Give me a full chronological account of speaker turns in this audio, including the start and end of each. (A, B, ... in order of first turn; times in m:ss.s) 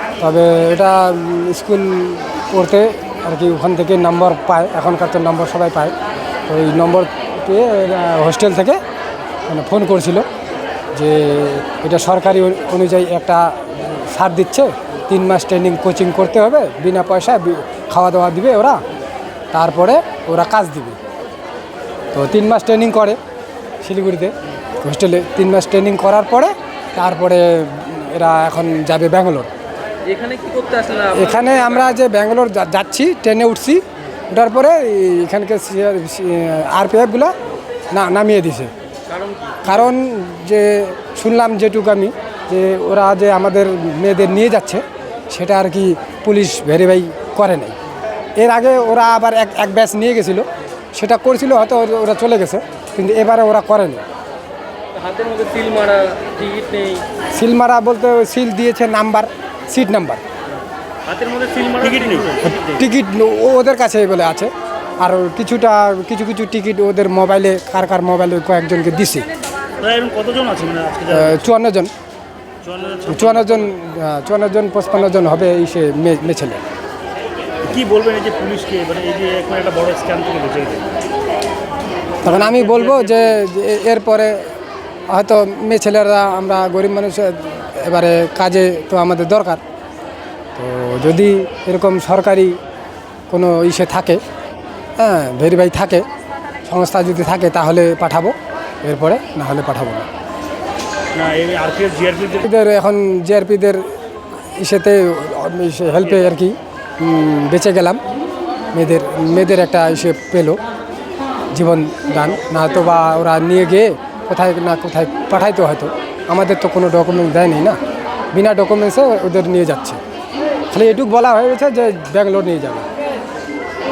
0:00.2-0:05.9 A
0:06.5-0:08.8 A
0:09.5-0:10.3 A
0:11.0-0:13.5 A
0:14.1-0:18.8 A
0:19.5-0:21.0 A
0:22.1-0:23.2 A
0:23.8-0:29.5 A
0:30.1-0:31.5 B
0:31.1-0:37.3 A
0:37.9-0:38.7 A
0:39.1-0:39.6 B
0:39.6-0:47.8 A
0:48.4-0:54.0 A
0:54.9-0:57.0 B
0:57.4-1:00.2 A
1:01.1-1:02.6 C
1:02.4-1:09.3 A
1:09.8-1:11.4 C
1:11.1-1:11.9 A
1:12.6-1:13.6 C
1:13.1-1:16.6 A
1:17.7-1:20.9 C
1:22.2-1:23.2 C
1:22.2-1:24.5 A
1:25.1-1:29.6 A
1:30.6-1:32.5 A
1:33.3-1:34.2 A
1:35.0-1:36.0 A
1:36.7-1:40.1 A
1:41.1-1:42.4 C
1:42.4-1:43.9 A
1:44.6-1:48.0 A
1:48.8-1:50.6 A
1:51.6-1:57.8 A
1:58.3-2:00.0 A
2:00.7-2:02.9 A